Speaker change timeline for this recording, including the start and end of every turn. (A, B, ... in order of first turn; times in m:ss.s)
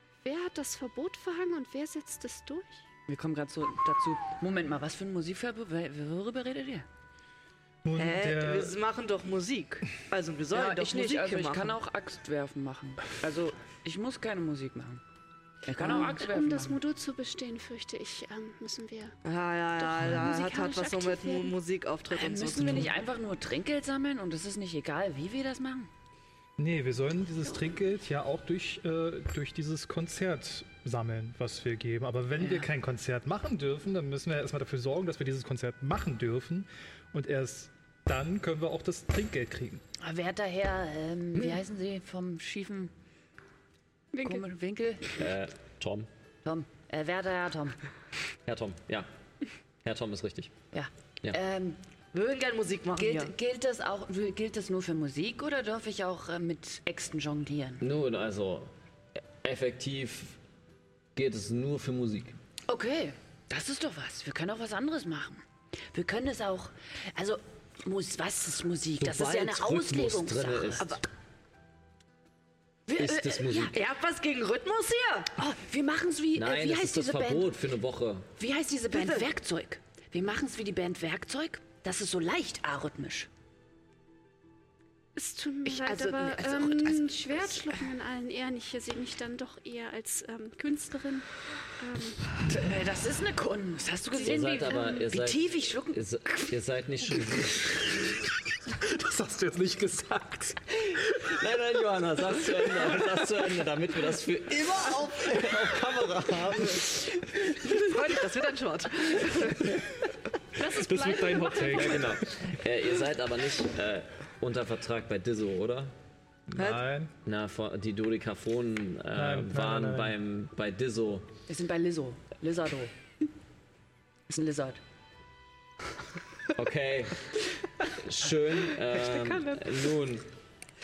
0:00.2-0:02.8 A
0:03.1-0:06.9 B
0:07.8-0:08.8 C
0:08.0-0:11.8 D
0:10.5-0:15.0 B
0:15.6-0:16.8 B
0:15.8-0:19.2 A
0:19.2-0:22.9 D
0:19.8-0:21.6 A
0:22.1-0:25.9 B
0:26.6-0:39.8 C
0:32.4-0:32.7 B
0:40.0-0:42.9 B
0:44.1-0:44.4 A
0:44.2-0:45.2 B
0:45.2-0:46.1 E
0:46.4-0:47.8 B
0:48.5-0:49.1 E
0:49.8-0:50.5 E
0:50.7-0:51.8 B
0:52.1-0:53.3 D
0:53.0-0:57.8 B
0:57.8-0:58.7 E
0:59.4-1:00.4 E
1:01.2-1:02.4 E
1:02.7-1:11.0 B
1:09.0-1:11.0 E
1:12.9-1:13.7 B
1:13.0-1:13.8 E
1:13.6-1:15.3 D
1:15.4-1:17.5 B
1:16.4-1:18.3 E
1:18.4-1:23.3 B
1:18.9-1:19.2 D
1:25.2-1:32.3 A
1:25.7-1:26.9 D
1:26.9-1:27.7 B
1:32.4-1:36.5 B
1:34.2-1:38.0 E
1:38.7-1:40.6 C
1:40.8-1:47.2 E
1:47.6-1:49.8 D
1:50.6-1:52.2 A
1:50.8-1:52.2 C
1:51.6-1:55.9 E
1:56.5-1:57.1 C
1:56.6-1:56.8 D
1:57.2-2:01.3 E
1:59.1-2:00.2 C
2:01.5-2:02.9 B
2:04.3-2:04.8 B
2:06.5-2:07.3 E
2:07.9-2:10.3 E